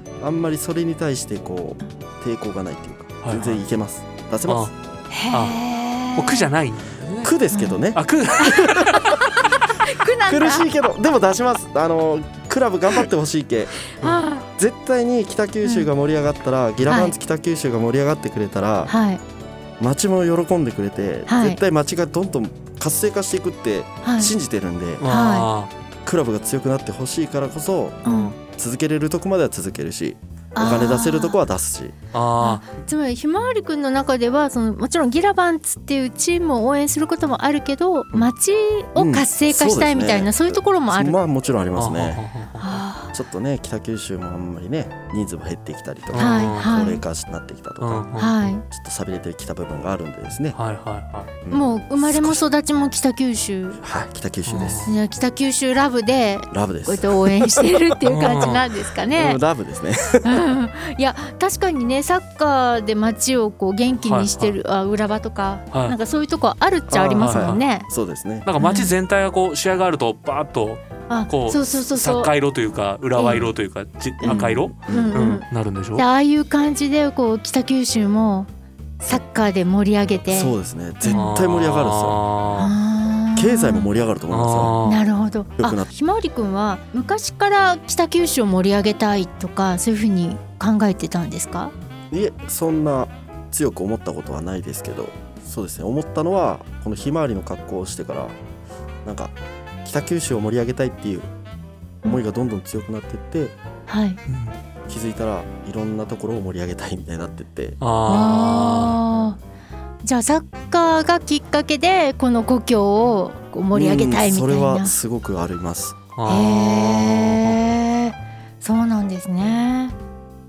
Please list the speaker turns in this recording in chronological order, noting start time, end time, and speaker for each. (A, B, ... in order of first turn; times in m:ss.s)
0:00.2-0:04.7 A
0:03.2-0:03.6 B
0:04.5-0:04.7 B
0:05.1-0:06.5 C
0:05.3-0:05.6 B
0:06.1-0:07.3 B
0:07.2-0:09.2 A
0:07.5-0:07.8 C
0:07.9-0:08.7 B
0:08.4-0:10.7 C
0:10.3-0:13.8 A
0:14.0-0:14.5 C
0:14.5-0:19.0 A
0:15.6-0:15.9 C
0:16.9-0:17.2 C
0:18.9-0:19.2 C
0:19.8-0:25.1 A
0:21.3-0:21.6 C
0:24.0-0:24.3 C
0:25.0-0:25.7 B
0:25.0-0:25.5 C
0:26.0-0:32.0 A
0:28.0-0:28.4 C
0:28.0-0:28.4 B
0:30.6-0:31.4 C
0:32.1-0:32.6 B
0:32.4-0:41.2 C
0:39.0-0:42.2 A
0:41.8-0:42.8 B
0:42.6-0:43.2 C
0:43.1-0:48.1 A
0:46.1-0:46.7 B
0:46.2-0:47.0 C
0:47.8-0:48.4 B
0:48.2-0:48.6 C
0:48.7-0:50.6 A
0:50.5-0:51.3 B
0:51.4-0:52.5 A
0:51.5-0:53.8 C
0:53.8-0:55.0 A
0:54.5-0:54.9 B
0:54.6-0:59.4 C
0:56.5-0:57.8 A
0:58.0-0:58.6 B
0:59.1-1:00.5 A
1:00.2-1:07.9 C
1:04.0-1:04.6 B
1:05.7-1:06.0 B
1:06.9-1:08.5 A
1:07.2-1:07.6 B
1:08.4-1:16.0 B
1:08.6-1:08.9 C
1:11.1-1:12.3 C
1:13.2-1:13.5 C
1:14.2-1:18.5 C
1:14.2-1:15.2 A
1:19.0-1:21.3 C
1:20.3-1:22.2 A
1:21.1-1:22.7 B
1:22.6-1:23.9 C
1:23.4-1:24.8 A
1:24.3-1:25.0 B
1:24.8-1:31.7 C
1:25.6-1:25.9 A
1:32.1-1:38.4 A
1:39.0-1:41.3 A
1:42.0-1:43.6 A
1:43.9-1:44.2 C
1:44.3-1:44.6 B
1:44.9-1:47.8 A
1:47.8-1:49.0 B
1:48.1-1:49.4 C
1:50.0-1:55.0 C
1:53.7-1:56.0 A
1:56.2-1:57.6 B
1:56.3-2:00.0 C